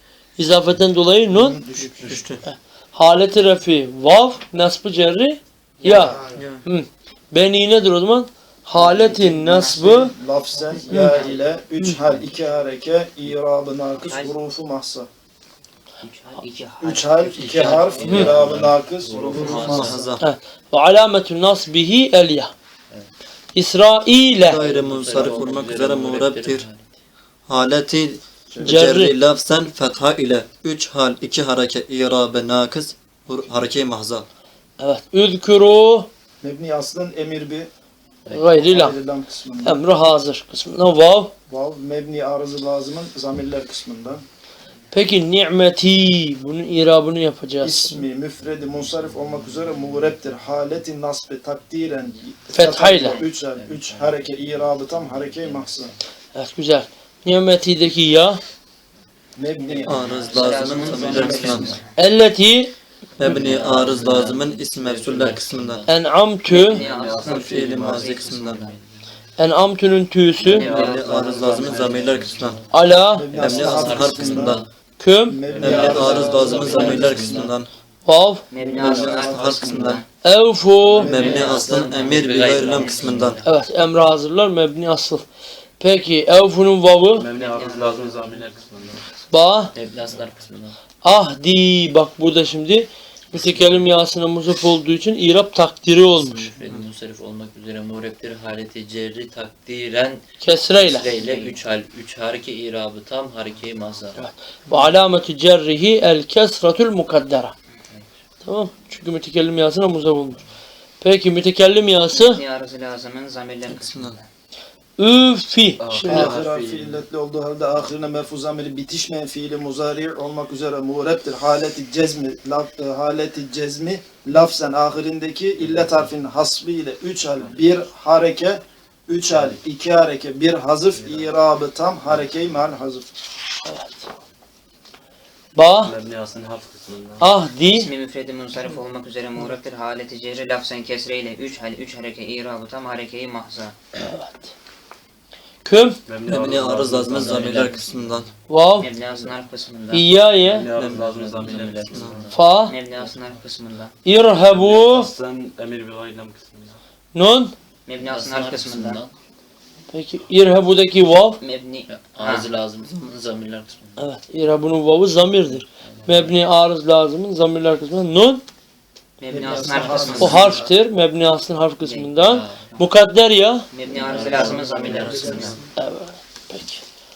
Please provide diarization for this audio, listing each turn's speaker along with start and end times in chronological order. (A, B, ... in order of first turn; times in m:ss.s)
0:00.4-0:01.6 A
0:01.3-0:02.2 B
0:01.8-0:02.4 C
0:02.4-0:10.1 A
0:05.8-0:06.6 D
0:05.8-0:06.3 B
0:08.7-0:10.2 D
0:09.8-0:15.1 B
0:10.7-0:11.5 D
0:10.9-0:11.2 A
0:14.0-0:14.4 D
0:16.0-0:18.4 D
0:16.8-0:20.0 B
0:17.4-0:17.8 C
0:17.5-0:20.1 E
0:19.3-0:19.7 D
0:19.4-0:20.2 C
0:20.2-0:22.5 A
0:23.5-0:24.6 A
0:24.4-0:26.7 C
0:24.5-0:26.9 E
0:27.5-0:34.3 C
0:28.6-0:29.1 A
0:34.8-0:36.1 A
0:36.4-0:37.7 B
0:38.3-0:38.6 E
0:38.3-0:39.0 A
0:38.6-0:39.8 B
0:39.6-0:41.3 A
0:41.5-0:44.2 B
0:44.9-0:48.0 A
0:47.6-0:56.0 B
0:52.5-0:53.2 A
0:53.4-0:54.3 E
0:55.0-0:55.9 E
0:56.4-0:58.4 A
0:59.4-1:01.8 B
0:59.8-1:01.8 E
0:59.9-1:01.7 C
1:00.2-1:01.8 D
1:02.0-1:02.7 A
1:03.2-1:05.8 C
1:03.2-1:06.0 E
1:05.9-1:06.8 A
1:06.5-1:08.8 D
1:06.7-1:08.1 F
1:07.2-1:08.7 C
1:09.4-1:10.7 A
1:10.4-1:12.6 F
1:10.4-1:12.0 D
1:10.7-1:12.6 C
1:11.8-1:12.7 E
1:12.7-1:13.3 A
1:13.2-1:14.6 B
1:13.3-1:14.7 E
1:13.4-1:14.6 C
1:15.0-1:15.4 A
1:15.3-1:17.4 B
1:15.5-1:17.4 F
1:15.6-1:17.5 E
1:15.6-1:17.7 C
1:18.0-1:18.4 A
1:18.5-1:20.1 D
1:18.6-1:19.6 B
1:18.8-1:20.0 C
1:20.2-1:21.4 A
1:21.0-1:23.4 E
1:21.0-1:22.0 B
1:21.0-1:23.4 C
1:22.2-1:23.4 D
1:23.4-1:25.2 A
1:25.8-1:27.3 A
1:27.2-1:29.0 F
1:27.3-1:28.5 D
1:29.3-1:29.7 A
1:29.8-1:30.8 E
1:31.0-1:36.5 A
1:33.3-1:33.9 E
1:36.1-1:44.2 E
1:40.4-1:41.1 A
1:44.2-1:47.6 A
1:44.7-1:44.9 C
1:48.4-1:50.4 A
1:51.0-1:52.4 A
1:52.1-1:54.3 D
1:53.7-1:54.2 C
1:55.0-1:56.4 A
1:55.8-1:57.1 F
1:56.0-2:13.1 B
2:05.6-2:06.1 F
2:07.4-2:07.7 F
2:09.3-2:09.6 F
2:10.9-2:11.5 F
2:12.1-2:12.6 F
2:13.6-2:14.1 A
2:15.6-2:16.0 A
2:15.8-2:17.3 F
2:17.2-2:17.9 A
2:17.7-2:23.8 D
2:23.9-2:24.5 A
2:25.6-2:26.0 A
2:26.1-2:27.8 F
2:26.3-2:28.3 C
2:27.0-2:28.3 E
2:28.5-2:28.9 A
2:28.8-2:30.1 D
2:29.9-2:30.7 A
2:30.4-2:32.3 F
2:30.7-2:32.4 E
2:30.8-2:31.0 C
2:32.3-2:32.8 A
2:32.7-2:34.0 D
2:34.0-2:35.1 A
2:34.5-2:36.8 F
2:37.2-2:37.5 A
2:37.9-2:39.0 D
2:38.0-2:39.1 E
2:39.9-2:41.4 A
2:41.4-2:42.5 D
2:41.9-2:44.0 E
2:42.8-2:43.1 C
2:44.0-2:48.4 A
2:45.8-2:46.3 E
2:49.2-2:50.6 D
2:49.3-2:50.7 B
2:49.6-2:50.6 E
2:50.2-2:53.7 A
2:51.8-2:52.9 D
2:52.2-2:52.7 E
2:53.7-2:55.6 D
2:53.9-2:55.6 E
2:54.1-2:55.6 B
2:55.8-2:56.8 A